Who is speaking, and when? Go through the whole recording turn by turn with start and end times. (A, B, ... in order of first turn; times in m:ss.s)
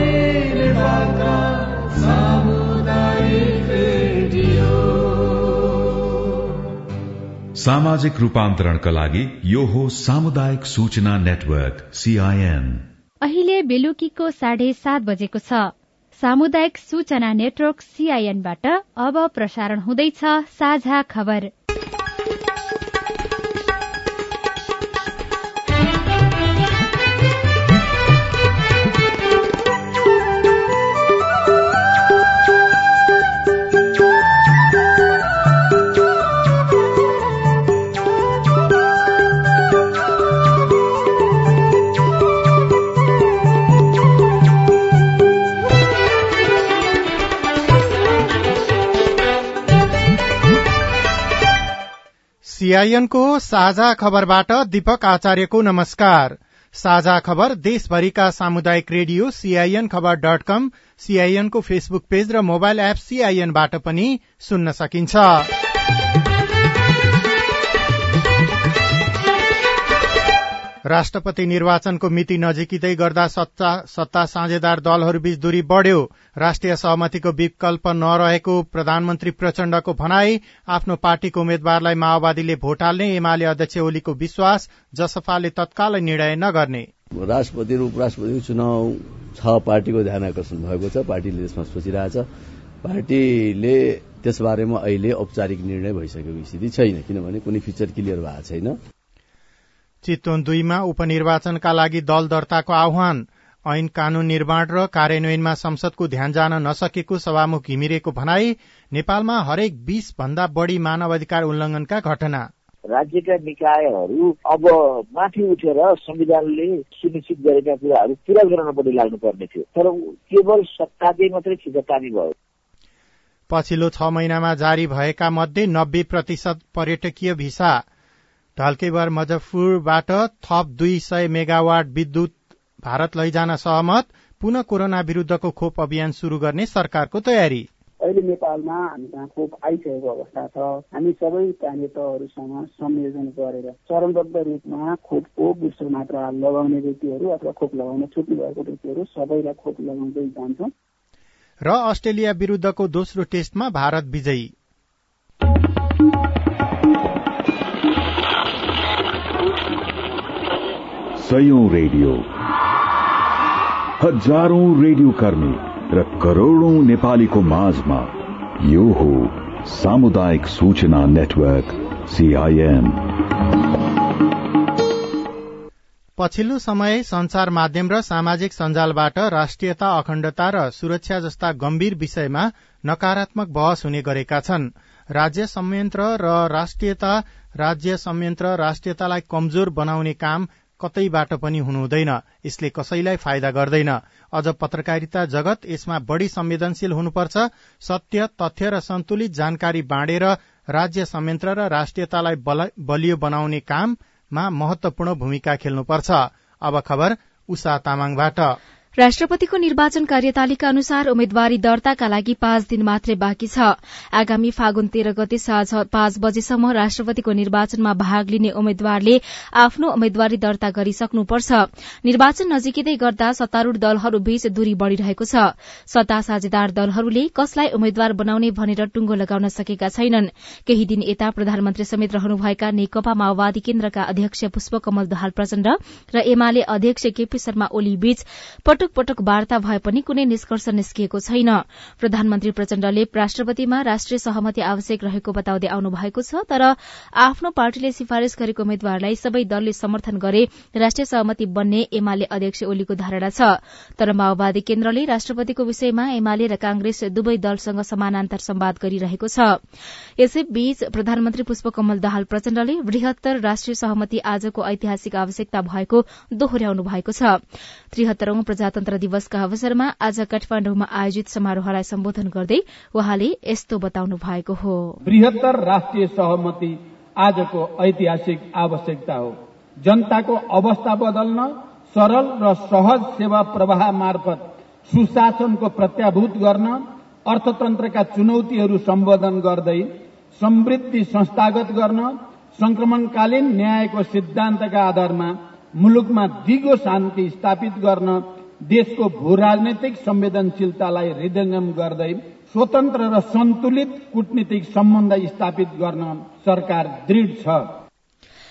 0:07.6-0:12.9 A
0:13.2-0:21.5 B
0:52.5-1:05.5 C
1:10.9-1:26.9 C
1:27.2-1:32.3 D
1:32.8-1:38.8 D
1:40.0-1:52.5 C
1:52.9-2:02.3 E
2:03.5-2:07.8 C
2:08.6-2:17.7 C
2:18.0-2:30.7 F
2:31.6-2:34.5 C
2:41.2-2:42.3 A
2:44.0-2:53.0 A
2:56.2-3:28.6 C
3:29.0-4:19.6 G
4:20.2-4:27.4 G
4:27.9-4:35.0 G
4:35.0-5:07.6 H